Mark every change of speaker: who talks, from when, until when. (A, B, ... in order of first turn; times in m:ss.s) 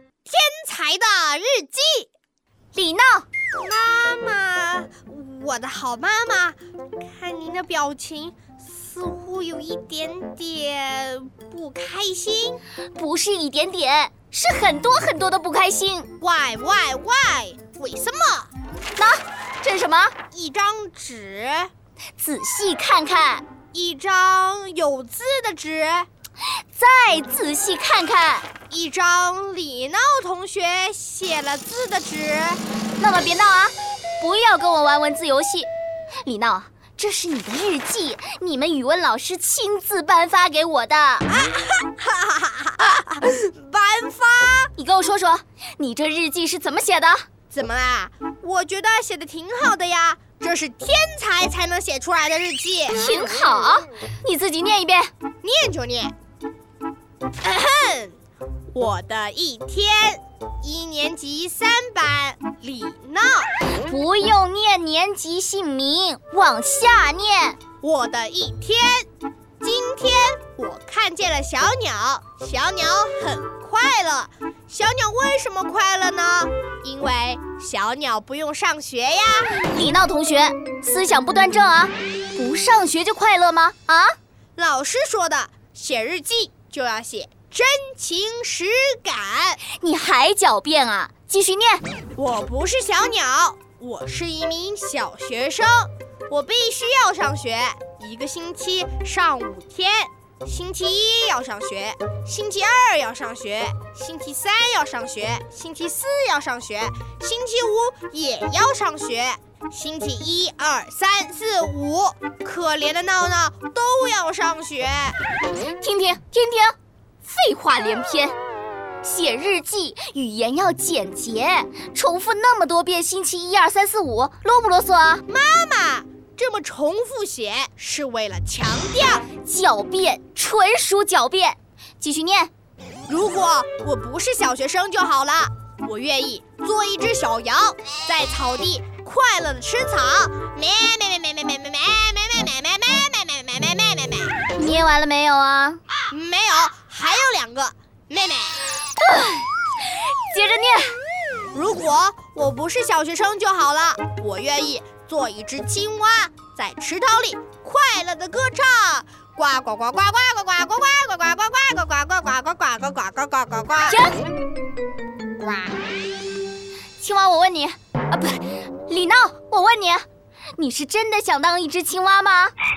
0:00.3-0:02.1 A
0:02.7-0:03.2 B
0:03.6-0:12.6 A
0:13.0-0:16.1 B
0:16.2-0:18.5 A
0:19.0-0:20.1 B
0:20.3-0:21.7 A
0:22.2-0:23.4 B
0:23.7-0:26.1 A
0:26.8-0:28.5 B
0:28.7-0:32.6 A
0:33.0-0:35.7 B
0:36.2-0:41.3 B
0:41.3-0:44.7 A
0:44.8-0:47.2 B
0:47.5-0:53.0 A
0:52.9-0:55.1 B
0:55.4-0:56.1 A
0:57.4-0:58.2 A
0:58.7-1:03.5 A
1:03.8-1:07.6 B
1:07.8-1:09.1 A
1:09.6-1:19.6 A
1:19.6-1:24.2 B
1:24.6-1:29.6 A
1:29.6-1:31.8 B
1:32.1-1:55.2 A
1:55.8-1:58.3 B
1:59.0-2:05.2 B
2:05.3-2:09.3 A
2:09.4-2:12.5 B
2:13.1-2:24.4 A
2:24.5-2:25.8 B
2:26.1-2:28.6 A
2:29.0-2:31.0 B
2:31.5-2:44.0 A
2:43.9-2:44.2 B
2:45.4-2:45.8 A
2:47.0-2:50.0 B
2:50.6-2:52.5 B